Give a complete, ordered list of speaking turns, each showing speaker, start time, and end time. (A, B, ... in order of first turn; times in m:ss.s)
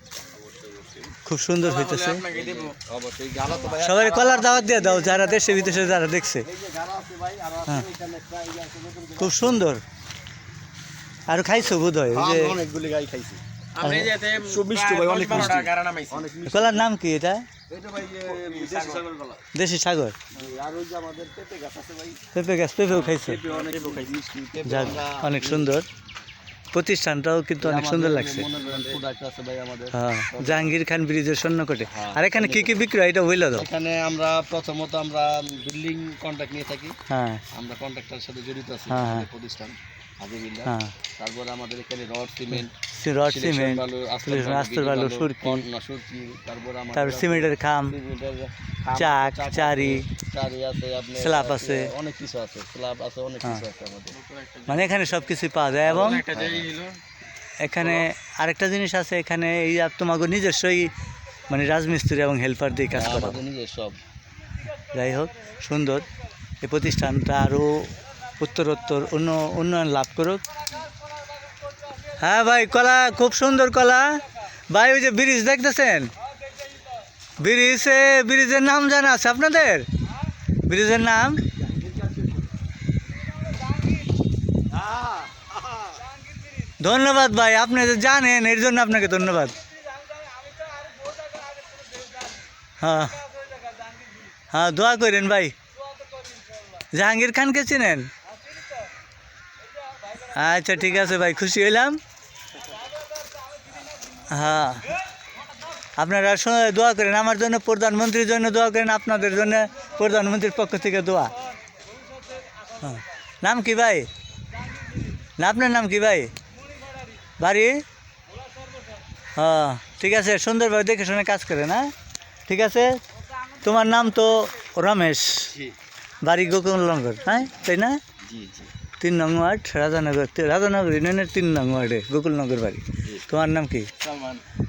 0:00.4-0:01.2 A
0:01.2-0:02.2 B
0:01.6-0:02.8 C
0:02.3-0:09.7 A
0:03.8-0:06.5 B
0:09.2-0:09.8 B
0:11.3-0:12.6 B
0:11.7-0:13.4 A
0:13.8-0:16.3 C
0:13.8-0:14.1 B
0:14.3-0:16.9 A
0:15.3-0:15.6 B
0:16.5-0:17.4 B
0:17.7-0:19.4 A
0:18.2-0:19.0 C
0:19.5-0:20.2 B
0:20.3-0:22.2 A
0:22.3-0:23.4 B
0:22.9-0:25.7 A
0:23.5-0:24.2 C
0:24.7-0:25.8 B
0:26.7-0:28.5 B
0:27.6-0:30.8 A
0:28.6-0:29.0 C
0:29.9-0:33.7 B
0:31.9-0:32.9 A
0:33.5-0:36.9 A
0:37.1-0:37.4 B
0:37.5-0:42.7 A
0:38.9-0:39.3 B
0:40.7-0:40.9 B
0:42.5-0:45.6 B
0:43.3-0:54.2 A
0:47.0-0:48.0 B
0:49.0-0:50.1 B
0:51.2-0:51.9 B
0:54.1-0:55.0 C
0:54.7-0:56.2 B
0:55.9-0:56.7 A
0:55.9-0:57.0 C
0:57.6-1:00.9 B
0:57.8-0:58.0 C
1:01.5-1:03.4 B
1:02.9-1:04.0 A
1:04.9-1:06.1 B
1:06.6-1:10.4 B
1:12.2-1:16.1 B
1:17.4-1:19.9 B
1:20.7-1:21.4 B
1:21.6-1:22.4 A
1:24.7-1:26.0 A
1:26.8-1:29.6 B
1:32.8-1:33.2 B
1:34.5-1:35.5 B
1:36.9-1:38.1 B
1:40.2-1:42.0 B
1:44.3-1:44.9 B
1:46.0-1:51.3 B
1:52.8-1:54.1 B
1:55.4-1:56.3 B
1:57.4-1:57.8 B
1:59.4-2:01.9 B
2:02.5-2:03.0 B
2:03.6-2:05.5 B
2:06.2-2:08.0 B
2:08.2-2:08.7 A
2:09.0-2:13.9 B
2:14.0-2:14.4 C